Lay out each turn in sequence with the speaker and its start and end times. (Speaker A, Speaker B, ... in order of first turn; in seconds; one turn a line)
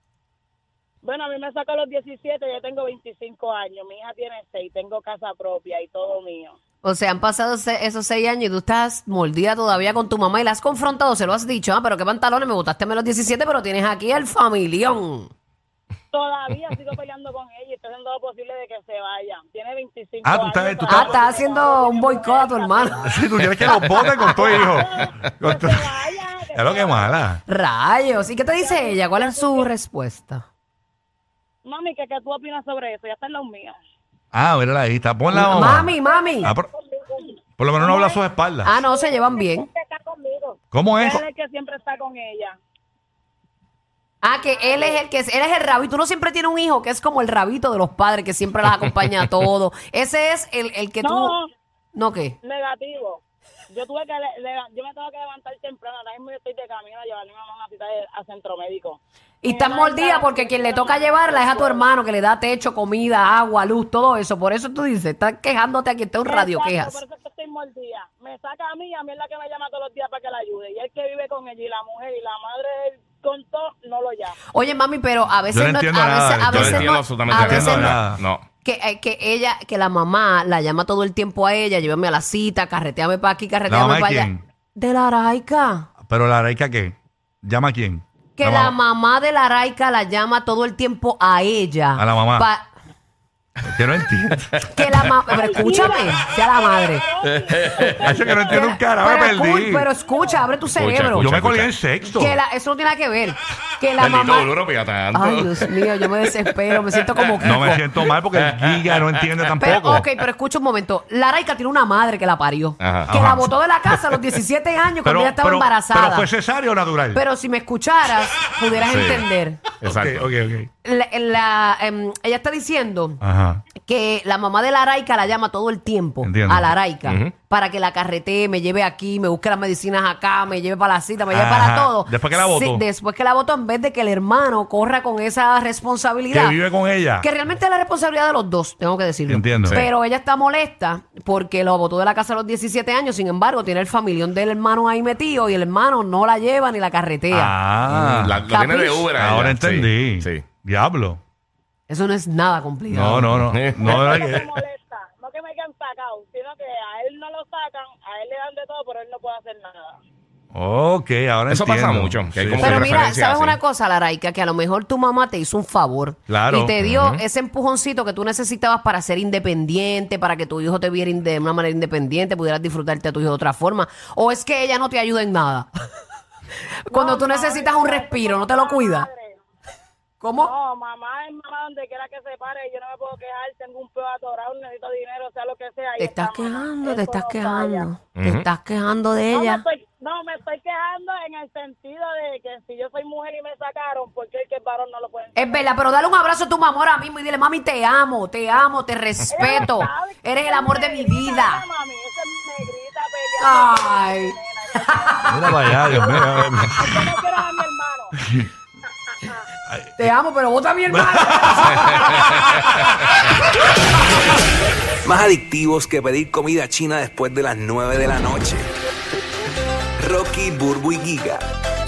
Speaker A: 1.0-6.6
Speaker B: 6.8-15.3
Speaker A: 16.1-27.2
Speaker C: 20.2-21.2
Speaker B: 20.9-23.1
Speaker C: 23.1-25.9
Speaker C: 26.5-27.4
Speaker B: 27.5-30.4
Speaker A: 28.6-29.7
Speaker A: 31.6-33.8
Speaker C: 34.3-35.9
Speaker B: 35.3-36.5
Speaker A: 35.9-38.2
Speaker C: 37.6-38.8
Speaker B: 38.6-39.7
Speaker A: 38.9-42.6
Speaker C: 40.7-41.2
Speaker B: 44.2-51.3
Speaker A: 44.3-45.0
Speaker A: 51.0-51.5
Speaker B: 52.0-52.4
Speaker A: 52.4-61.9
Speaker B: 59.4-67.0
Speaker A: 66.3-74.4
Speaker B: 74.5-78.0
Speaker C: 75.5-78.2
Speaker D: 76.5-78.5
Speaker B: 78.6-85.9
Speaker C: 83.7-84.4
Speaker C: 86.0-88.8
Speaker B: 88.4-92.7
Speaker C: 92.0-92.5
Speaker C: 93.7-95.1
Speaker B: 94.7-97.0
Speaker A: 95.3-99.4
Speaker D: 97.2-98.2
Speaker C: 98.0-99.9
Speaker B: 98.6-101.3
Speaker A: 100.0-100.4
Speaker D: 100.8-101.7
Speaker C: 101.2-102.4
Speaker B: 102.0-104.5
Speaker D: 104.0-106.3
Speaker B: 105.1-107.9
Speaker C: 107.4-110.1
Speaker D: 108.2-109.7
Speaker B: 109.6-116.3
Speaker D: 112.8-113.1
Speaker C: 113.1-114.1
Speaker C: 115.0-117.2
Speaker B: 117.1-119.6
Speaker D: 118.8-119.3
Speaker D: 119.8-120.3
Speaker C: 119.8-120.7
Speaker B: 120.8-123.2
Speaker C: 123.2-123.6
Speaker B: 123.8-136.6
Speaker C: 126.2-126.7
Speaker D: 127.0-127.3
Speaker C: 131.3-132.8
Speaker C: 136.3-137.3
Speaker B: 137.2-147.6
Speaker C: 139.3-139.8
Speaker D: 139.6-139.9
Speaker C: 147.3-148.4
Speaker D: 147.9-150.5
Speaker B: 148.5-149.1
Speaker C: 149.2-151.2
Speaker B: 151.9-153.4
Speaker C: 152.9-154.5
Speaker D: 153.5-154.4
Speaker A: 153.8-160.0
Speaker C: 160.5-163.0
Speaker D: 161.5-163.6
Speaker B: 162.6-175.7
Speaker C: 166.3-166.8
Speaker D: 166.8-167.2
Speaker B: 176.9-179.1
Speaker A: 176.9-179.4
Speaker B: 180.2-180.5
Speaker A: 180.4-187.9
Speaker B: 186.0-189.6
Speaker D: 188.2-188.4
Speaker A: 189.3-195.7
Speaker B: 195.4-201.6
Speaker A: 199.3-208.2
Speaker B: 203.4-204.3
Speaker B: 204.9-205.5
Speaker C: 205.3-207.1
Speaker A: 209.2-209.4
Speaker C: 209.7-210.1
Speaker B: 210.0-212.7
Speaker C: 210.9-213.1
Speaker E: 215.0-218.7
Speaker E: 220.0-221.5